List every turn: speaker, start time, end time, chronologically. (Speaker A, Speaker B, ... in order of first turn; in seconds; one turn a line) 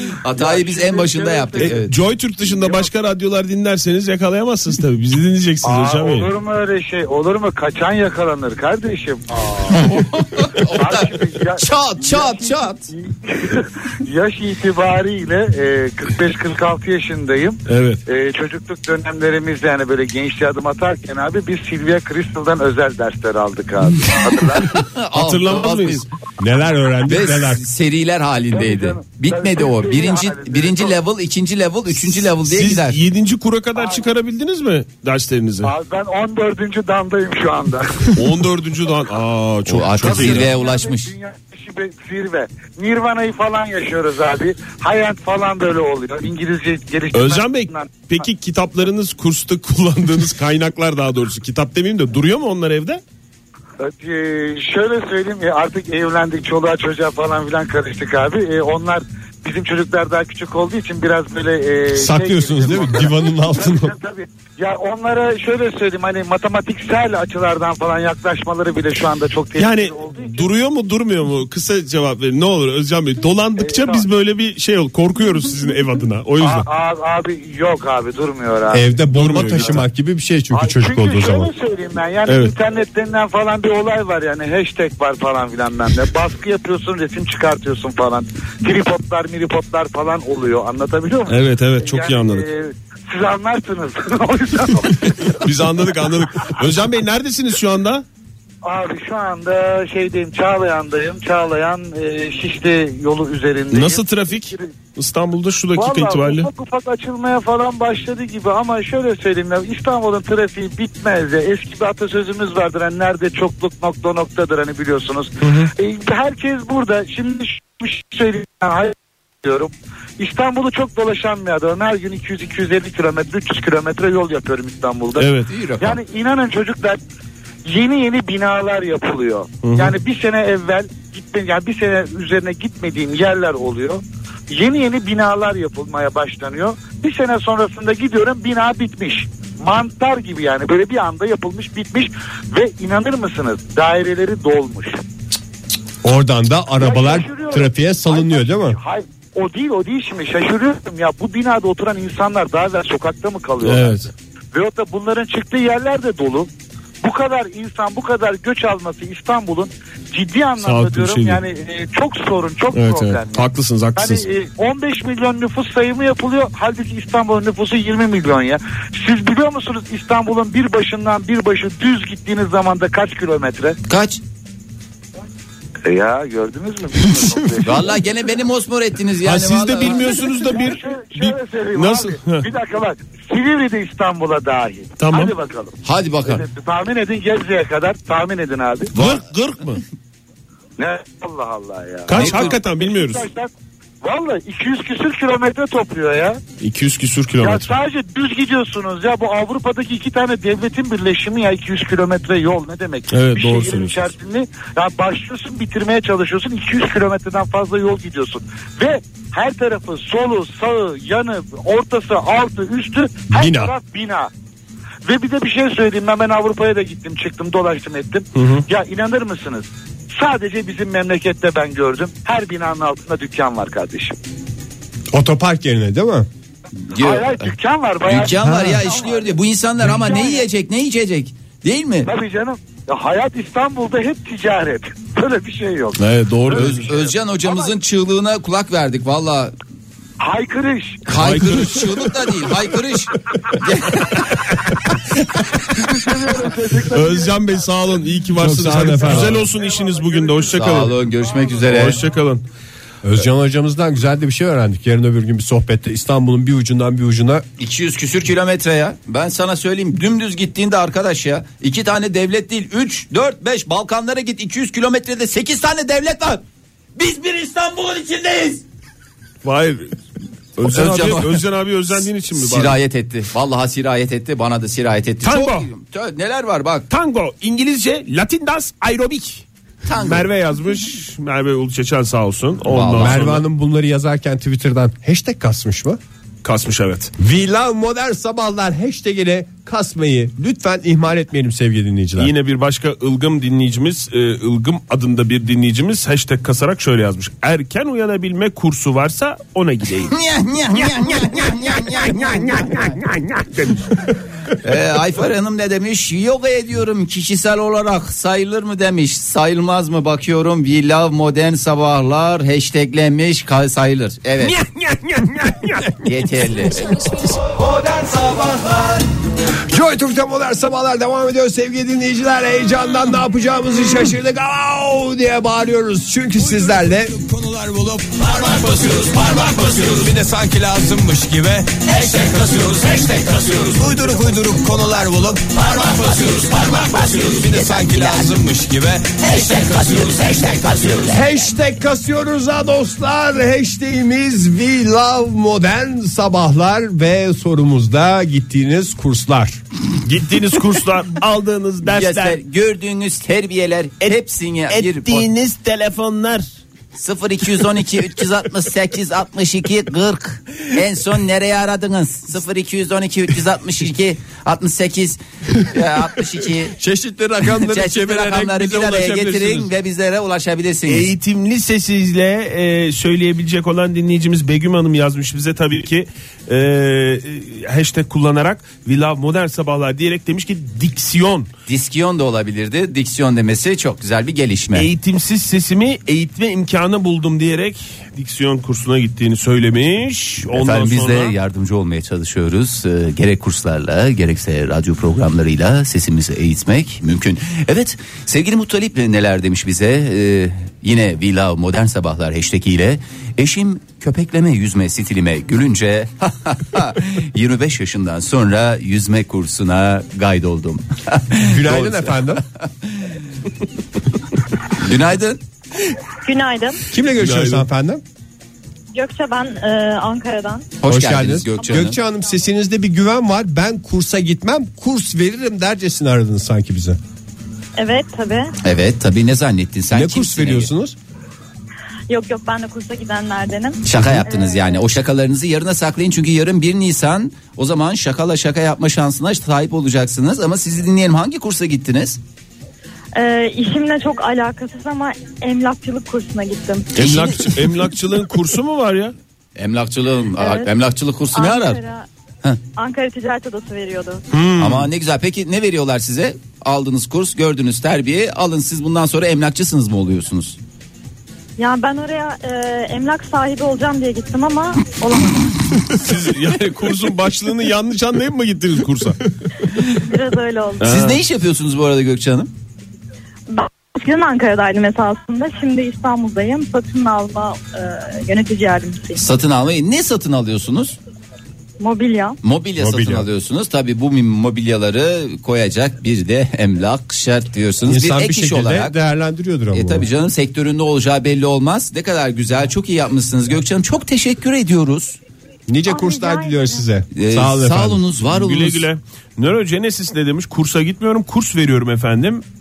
Speaker A: 0.2-1.9
Speaker B: 0.3-1.8
Speaker C: 1.6-6.3
Speaker B: 2.4-2.9
Speaker B: 5.6-9.8
Speaker A: 9.7-12.9
Speaker B: 10.7-24.8
Speaker C: 17.7-18.0
Speaker A: 24.7-26.1
Speaker C: 25.1-26.0
Speaker D: 26.4-27.6
Speaker A: 27.1-33.0
Speaker B: 28.5-30.9
Speaker C: 32.3-35.7
Speaker B: 33.8-34.0
Speaker B: 35.6-38.2
Speaker C: 38.1-40.5
Speaker A: 39.7-41.1
Speaker B: 40.0-48.0
Speaker C: 47.1-53.0
Speaker B: 53.8-70.5
Speaker D: 61.9-63.9
Speaker C: 69.6-76.7
Speaker B: 73.6-74.0
Speaker B: 76.4-79.8
Speaker D: 78.7-81.5
Speaker C: 79.1-79.8
Speaker B: 80.5-95.5
Speaker C: 82.2-82.5
Speaker C: 91.3-92.5
Speaker C: 95.0-98.0
Speaker B: 98.6-104.7
Speaker C: 103.7-106.5
Speaker B: 105.7-127.0
Speaker C: 115.4-115.7
Speaker C: 125.2-125.5
Speaker A: 125.5-126.0
Speaker B: 127.7-145.0
Speaker C: 129.6-130.0
Speaker D: 146.0-148.8
Speaker B: 146.8-156.5
Speaker C: 153.6-154.1
Speaker B: 157.0-173.8
Speaker C: 160.6-161.4
Speaker C: 162.7-164.2
Speaker A: 173.8-174.2
Speaker B: 175.8-178.0
Speaker A: 177.6-180.2
Speaker C: 179.2-182.5
Speaker B: 179.9-188.9
Speaker C: 185.0-185.3
Speaker A: 185.8-186.4
Speaker C: 188.9-189.8
Speaker B: 190.8-193.5
Speaker C: 192.1-193.3
Speaker A: 192.1-192.5
Speaker B: 194.0-196.4
Speaker C: 196.6-197.7
Speaker B: 197.4-214.3
Speaker C: 203.1-204.1
Speaker D: 213.3-213.7
Speaker B: 215.1-224.1
Speaker C: 218.3-218.6
Speaker D: 225.1-226.3
Speaker A: 226.9-227.5
Speaker B: 226.9-229.0
Speaker A: 228.1-232.1
Speaker D: 228.4-228.8
Speaker B: 232.0-237.7
Speaker C: 236.0-236.9
Speaker A: 236.5-239.5
Speaker B: 240.2-241.0
Speaker A: 241.1-244.2
Speaker C: 241.1-242.5
Speaker C: 245.8-246.1
Speaker B: 245.9-247.6
Speaker C: 246.8-250.9
Speaker D: 248.3-249.4
Speaker B: 249.2-251.6
Speaker A: 250.5-252.0
Speaker C: 251.7-252.4
Speaker D: 253.0-257.4
Speaker A: 257.6-266.4
Speaker A: 266.9-268.6
Speaker C: 269.4-269.9
Speaker C: 270.6-272.8
Speaker A: 270.6-271.4
Speaker A: 272.3-276.9
Speaker C: 275.2-275.7
Speaker C: 276.9-279.4
Speaker A: 279.9-280.3
Speaker C: 280.0-283.4
Speaker A: 282.7-283.3
Speaker D: 283.0-286.0
Speaker C: 286.4-287.1
Speaker D: 287.2-292.3
Speaker C: 292.2-300.1
Speaker A: 300.1-303.0
Speaker C: 300.8-304.2
Speaker A: 304.6-314.6
Speaker C: 314.4-315.9
Speaker A: 316.0-317.3
Speaker E: 317.4-319.0
Speaker D: 319.7-327.1
Speaker E: 326.4-341.1
Speaker A: 337.5-338.2
Speaker D: 341.1-349.6
Speaker C: 350.0-352.4
Speaker A: 351.9-355.3
Speaker C: 354.7-356.4
Speaker A: 356.9-366.7
Speaker D: 366.7-369.7
Speaker A: 367.6-371.1
Speaker C: 370.9-381.5
Speaker A: 381.7-384.9
Speaker C: 384.7-391.3
Speaker A: 390.5-413.2
Speaker D: 411.4-412.4
Speaker A: 414.7-415.4
Speaker F: 416.2-416.8
Speaker D: 416.9-418.0
Speaker C: 417.2-417.6
Speaker F: 418.9-420.7
Speaker A: 420.8-422.0
Speaker D: 420.8-427.0
Speaker F: 427.8-428.5
Speaker A: 428.6-430.7
Speaker D: 429.9-430.9
Speaker F: 432.1-434.8
Speaker A: 433.8-442.2
Speaker D: 433.9-434.2
Speaker F: 443.1-446.9
Speaker C: 446.9-449.1
Speaker A: 446.9-447.6
Speaker A: 449.6-451.8
Speaker F: 450.4-450.7
Speaker F: 451.3-452.1
Speaker F: 452.8-454.2
Speaker C: 454.3-454.9
Speaker A: 454.6-460.6
Speaker F: 461.6-465.6
Speaker C: 465.9-469.2
Speaker F: 470.0-470.9
Speaker C: 470.8-471.2
Speaker A: 470.8-472.5
Speaker F: 473.5-479.2
Speaker A: 479.1-481.0
Speaker F: 481.8-482.4
Speaker A: 482.4-489.0
Speaker D: 482.8-483.3
Speaker D: 487.8-490.1
Speaker A: 489.7-495.2
Speaker D: 495.7-498.0
Speaker F: 495.9-496.9
Speaker A: 497.1-498.9
Speaker C: 498.3-502.4